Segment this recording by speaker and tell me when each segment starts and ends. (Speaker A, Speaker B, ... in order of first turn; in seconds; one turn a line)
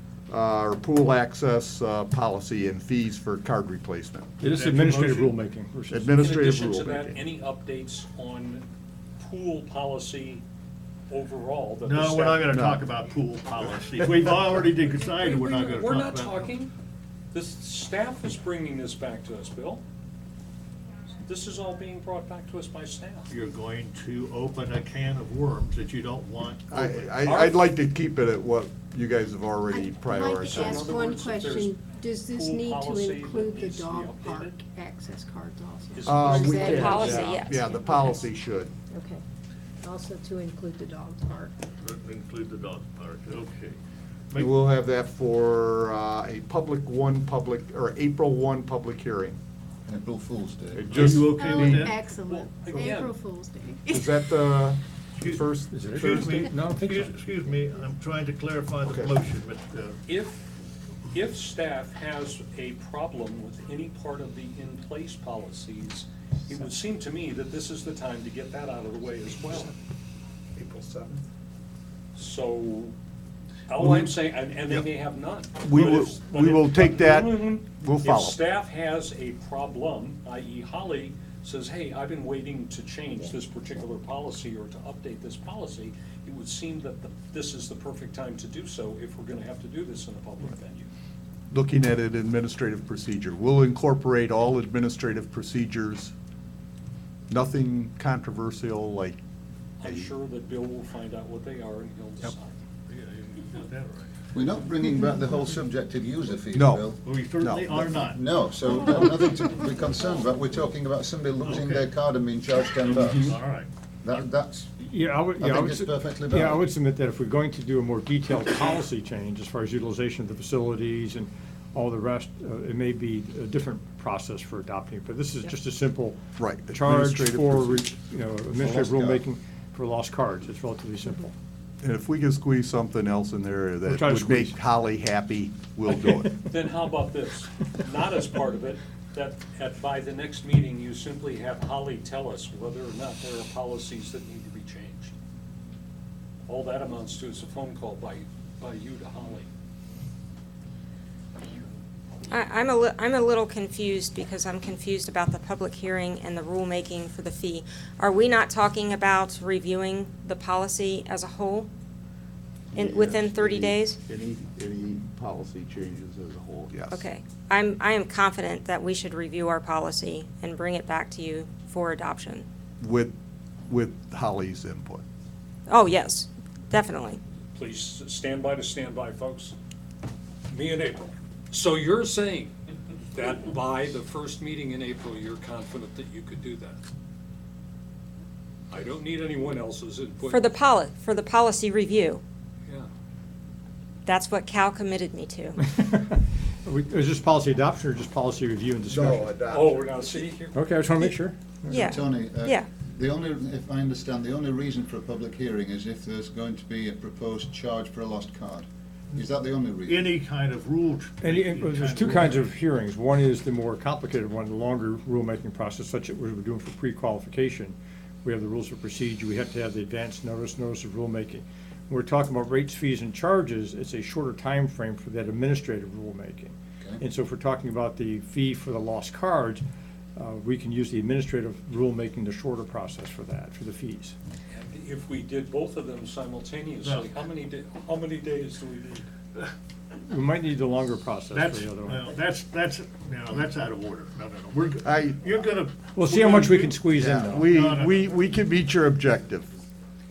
Speaker A: 0.3-4.3
Speaker B: 4.4-5.3
Speaker C: 4.4-6.1
Speaker A: 5.9-7.2
Speaker D: 6.2-8.6
Speaker D: 9.2-10.4
Speaker D: 11.1-12.5
Speaker B: 11.8-16.6
Speaker D: 15.2-16.7
Speaker D: 17.3-19.8
Speaker D: 21.2-23.3
Speaker B: 23.3-27.1
Speaker A: 26.7-30.9
Speaker D: 27.2-27.7
Speaker E: 29.7-38.1
Speaker D: 30.4-34.6
Speaker D: 35.9-37.2
Speaker A: 36.0-38.7
Speaker F: 36.4-37.7
Speaker E: 38.9-39.2
Speaker E: 39.8-41.5
Speaker B: 41.8-43.8
Speaker A: 44.4-49.4
Speaker G: 49.9-51.1
Speaker A: 50.7-51.9
Speaker B: 50.8-52.1
Speaker E: 51.4-53.9
Speaker D: 52.1-53.2
Speaker A: 53.9-56.4
Speaker B: 55.2-60.0
Speaker C: 55.7-57.1
Speaker A: 58.9-59.1
Speaker D: 60.1-60.4
Speaker D: 61.1-69.7
Speaker A: 70.5-71.2
Speaker D: 72.1-72.9
Speaker D: 73.7-90.9
Speaker A: 73.8-74.1
Speaker A: 75.6-78.4
Speaker A: 91.5-96.1
Speaker A: 97.3-99.2
Speaker D: 99.8-102.6
Speaker A: 99.8-100.1
Speaker B: 102.9-104.1
Speaker G: 104.3-107.0
Speaker A: 106.5-106.9
Speaker B: 107.0-108.2
Speaker A: 107.4-107.7
Speaker G: 107.8-113.4
Speaker B: 111.4-111.9
Speaker B: 112.8-113.7
Speaker G: 114.0-114.7
Speaker C: 114.8-131.3
Speaker G: 115.4-116.7
Speaker A: 126.4-127.9
Speaker A: 128.6-129.0
Speaker A: 131.8-136.4
Speaker C: 133.8-134.6
Speaker D: 135.9-145.1
Speaker D: 146.4-149.5
Speaker F: 152.3-161.7
Speaker A: 162.7-167.1
Speaker F: 162.7-164.0
Speaker F: 166.9-172.4
Speaker A: 172.8-173.1
Speaker A: 173.7-175.0
Speaker F: 175.7-177.2
Speaker D: 177.5-179.6
Speaker D: 180.5-182.5
Speaker D: 183.1-186.8
Speaker D: 188.7-190.5
Speaker F: 190.3-192.2
Speaker F: 194.1-195.6
Speaker C: 195.6-199.3
Speaker A: 198.9-199.9
Speaker D: 199.5-200.6
Speaker C: 200.5-201.9
Speaker F: 201.7-202.7
Speaker G: 201.7-210.1
Speaker B: 209.8-212.5
Speaker C: 211.2-229.6
Speaker C: 230.2-234.1
Speaker D: 234.5-239.0
Speaker B: 236.8-237.1
Speaker C: 240.1-242.1
Speaker B: 241.3-248.1
Speaker A: 244.8-245.2
Speaker C: 245.9-247.5
Speaker A: 246.9-249.5